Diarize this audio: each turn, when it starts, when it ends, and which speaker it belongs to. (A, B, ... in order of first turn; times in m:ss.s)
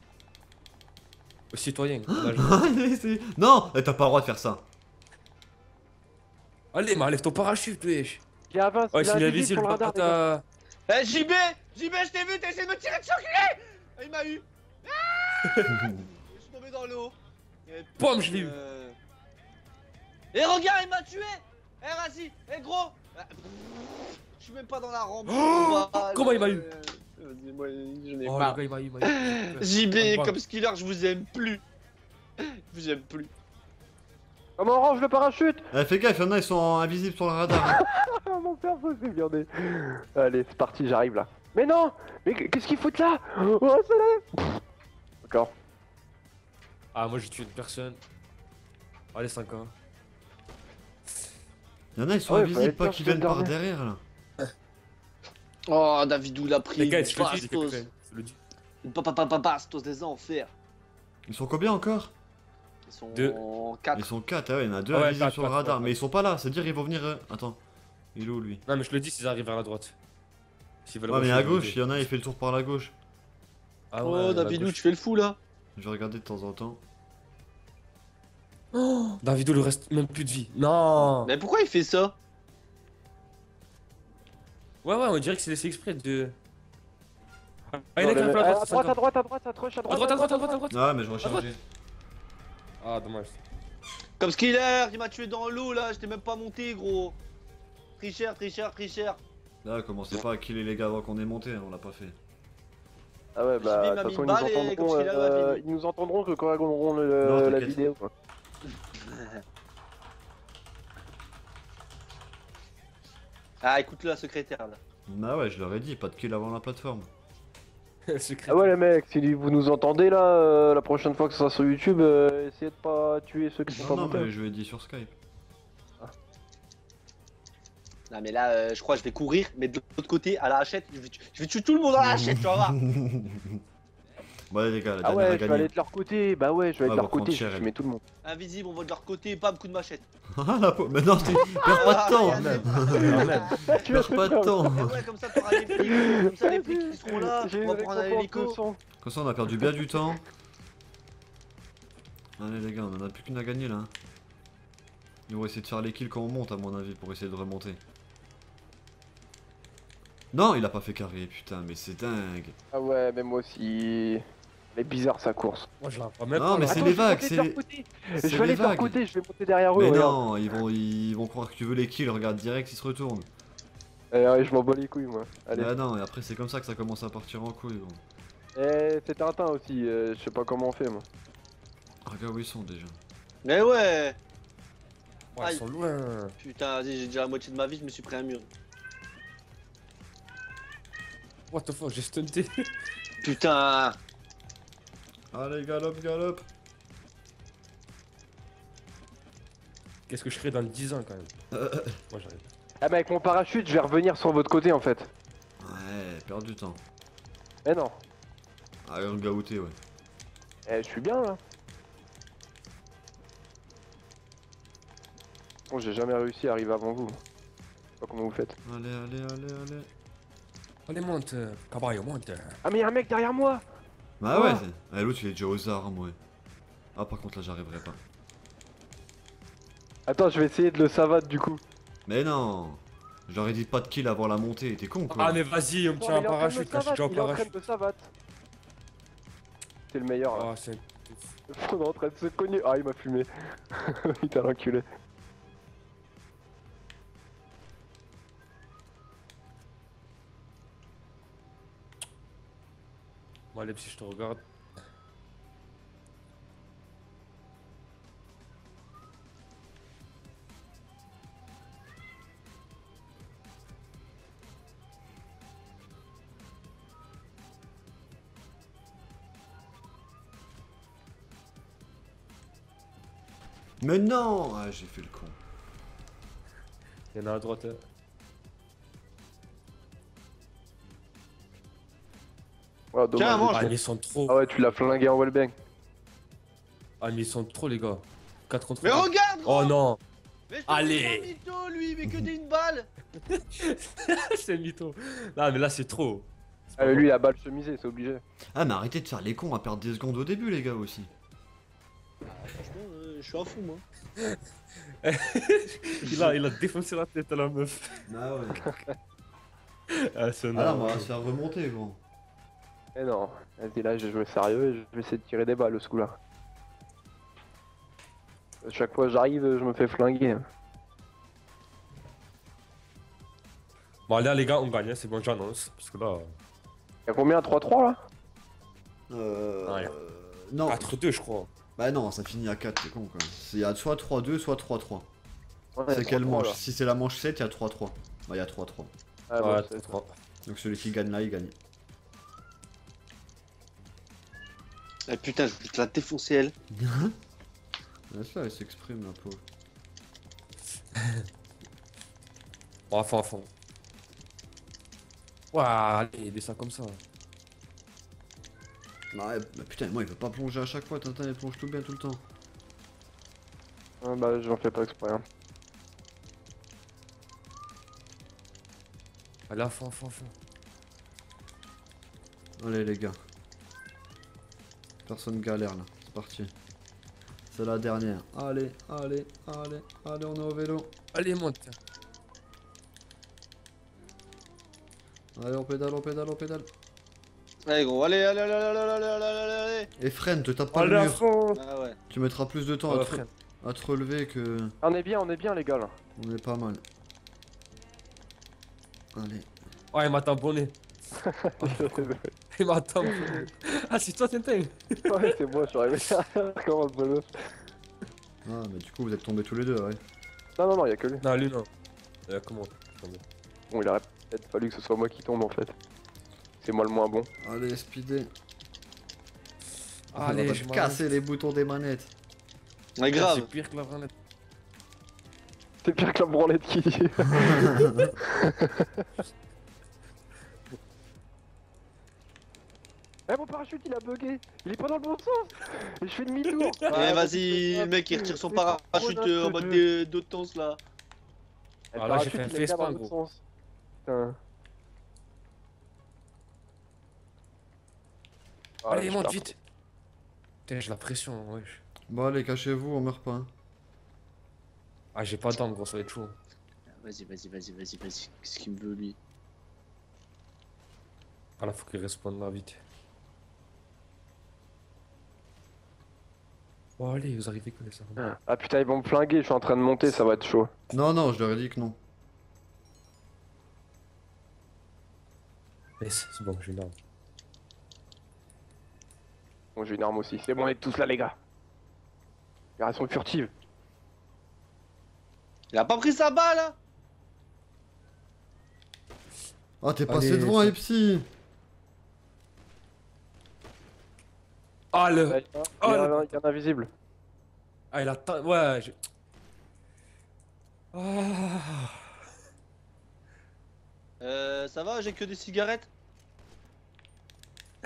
0:01.5-0:02.5 A
0:02.1-0:04.6 B
0:06.7-0:08.2 A
0:08.5-0:10.2 C
0:08.9-0:10.4 A
0:10.9-0:19.0 D
0:15.4-0:15.8 A
0:15.8-0:16.0 B
0:18.0-0:18.6 A
0:20.3-0:31.6 D
0:25.3-0:26.7 A
0:28.2-0:30.4 A
0:32.4-0:33.3 D
0:34.6-0:35.7 C
0:35.7-0:37.8 B
0:37.5-0:44.6 C
0:45.2-0:45.5 C
0:46.9-0:48.0 A
0:49.1-0:49.7 A
0:52.0-0:54.0 B
0:52.3-0:53.5 C
0:55.7-0:57.8 D
0:56.8-0:58.4 A
0:58.8-1:00.5 D
1:01.3-1:02.1 B
1:02.9-1:04.1 D
1:03.1-1:03.4 A
1:03.9-1:07.6 B
1:04.9-1:06.0 A
1:08.2-1:08.6 B
1:08.7-1:10.0 A
1:10.9-1:11.8 A
1:11.1-1:12.9 B
1:13.9-1:14.8 A
1:14.0-1:15.4 D
1:15.8-1:16.8 B
1:18.7-1:21.3 A
1:21.2-1:22.2 D
1:24.8-1:26.4 A
1:27.7-1:29.0 A
1:28.0-1:30.6 C
1:29.9-1:31.5 A
1:30.7-1:31.6 B
1:32.8-1:33.4 A
1:34.2-1:37.2 D
1:38.0-1:39.2 D
1:39.6-1:42.2 B
1:43.4-1:48.1 C
1:43.6-1:45.6 D
1:47.2-1:47.8 B
1:49.0-1:49.4 D
1:53.6-1:54.8 D
1:55.1-1:57.1 B
1:58.1-1:58.7 A
1:58.5-2:04.3 C
2:03.8-2:05.2 B
2:08.1-2:12.8 D
2:12.0-2:13.6 B
2:14.5-2:15.7 B
2:15.0-2:18.0 C
2:16.8-2:17.7 B
2:18.2-2:20.0 D
2:20.3-2:25.0 B
2:21.3-2:21.7 C
2:21.7-2:23.8 D
2:21.8-2:23.6 A
2:23.5-2:24.7 C
2:24.7-2:28.6 D
2:25.7-2:28.8 C
2:29.0-2:30.2 B
2:32.4-2:33.9 B
2:35.3-2:37.8 B
2:40.3-2:42.6 B
2:42.7-2:45.7 C
2:45.8-2:47.0 A
2:46.4-2:47.6 B
2:46.7-2:50.2 C
2:48.2-2:49.0 B
2:49.8-2:53.3 B
2:54.1-2:55.7 C
2:55.5-2:58.0 B
2:58.6-3:01.0 C
3:02.1-3:03.0 B
3:03.4-3:04.2 D
3:05.4-3:06.4 A
3:06.4-3:08.5 D
3:11.5-3:12.7 A
3:13.2-3:14.0 D
3:15.3-3:16.5 B
3:20.1-3:21.3 A
3:21.5-3:22.0 B
3:22.1-3:22.5 A
3:22.8-3:25.1 C
3:25.6-3:26.8 B
3:27.6-3:28.0 C
3:28.8-3:29.8 B
3:30.7-3:31.4 C
3:35.7-3:37.2 C
3:38.0-3:38.6 C
3:38.6-3:39.9 B
3:40.9-3:42.6 A
3:42.6-3:43.6 C
3:44.2-3:46.2 B
3:44.3-3:44.6 C
3:47.0-3:48.0 B
3:50.1-3:51.6 C
3:52.1-3:55.4 B
3:55.1-3:57.5 A
3:56.0-3:58.1 C
3:59.9-4:00.5 C
4:00.3-4:01.3 A
4:01.5-4:04.8 C
4:13.5-4:14.4 A
4:33.8-4:35.4 B
4:37.1-4:37.8 A
4:42.9-4:43.7 C
4:43.2-4:43.7 D
4:43.4-4:44.4 A
4:44.3-4:45.5 C
4:47.0-4:50.0 A
4:48.8-4:49.8 D
4:50.5-4:52.9 D
4:50.7-4:51.3 A
4:53.3-4:57.1 A
4:56.8-4:58.2 C
4:58.6-5:01.1 B
5:02.3-5:03.8 D
5:05.0-5:08.0 A
5:06.0-5:06.3 D
5:08.1-5:08.7 B
5:08.6-5:08.9 C
5:09.9-5:11.1 A
5:10.5-5:12.0 B
5:13.0-5:16.2 C
5:18.6-5:20.5 C
5:24.1-5:26.3 A
5:27.1-5:28.0 C
5:29.1-5:31.0 B
5:29.7-5:29.9 A
5:30.7-5:31.5 A
5:31.8-5:35.1 B
5:35.8-5:36.6 C
5:35.9-5:38.9 B
5:39.3-5:39.9 C
5:39.4-5:40.1 A
5:40.4-5:41.5 B
5:45.1-5:46.5 D
5:46.7-5:47.2 B
5:48.1-5:49.4 B
5:51.0-5:51.2 A
5:52.9-5:53.5 A
5:55.5-5:57.0 A
5:59.1-6:02.2 B
6:04.0-6:05.2 C
6:09.5-6:10.3 A
6:12.6-6:13.2 B
6:15.1-6:16.5 B
6:17.5-6:20.9 B
6:21.1-6:21.8 A
6:25.4-6:26.7 B
6:27.7-6:29.9 D
6:30.0-6:31.2 B
6:30.7-6:31.6 A
6:31.6-6:32.0 D
6:32.1-6:34.8 B
6:32.9-6:33.3 A
6:34.8-6:36.0 C
6:36.2-6:36.8 B
6:39.1-6:39.5 B
6:39.9-6:40.8 A
6:41.2-6:42.3 C
6:41.6-6:45.4 A
6:43.1-6:43.4 C
6:45.1-6:47.5 C
6:48.4-6:50.0 B
6:50.6-6:51.2 C
6:51.2-6:51.7 A
6:52.3-6:53.2 A
6:53.7-6:55.8 C
6:56.6-6:57.3 C
6:57.4-6:58.3 B
7:00.1-7:01.0 A
7:00.2-7:02.1 B
7:03.0-7:03.5 D
7:03.1-7:04.1 A
7:05.8-7:09.0 C
7:07.3-7:08.2 B
7:13.3-7:19.8 C
7:16.9-7:20.8 D
7:21.9-7:23.4 C
7:22.0-7:23.1 A
7:24.1-7:24.4 C
7:28.8-7:29.5 C
7:28.9-7:29.6 A
7:30.7-7:31.8 A
7:32.1-7:33.5 B
7:35.2-7:36.4 A
7:37.0-7:39.2 D
7:41.6-7:42.8 A
7:47.0-7:48.2 A
7:48.2-7:50.7 C
7:50.9-7:52.0 B
7:56.0-7:57.0 A
7:59.8-8:01.4 C
8:02.8-8:03.5 C
8:05.7-8:06.8 D
8:09.8-8:11.3 B
8:10.1-8:10.8 A
8:14.9-8:16.4 A
8:15.3-8:16.9 C
8:17.9-8:19.0 A
8:20.9-8:22.1 A
8:24.2-8:25.9 D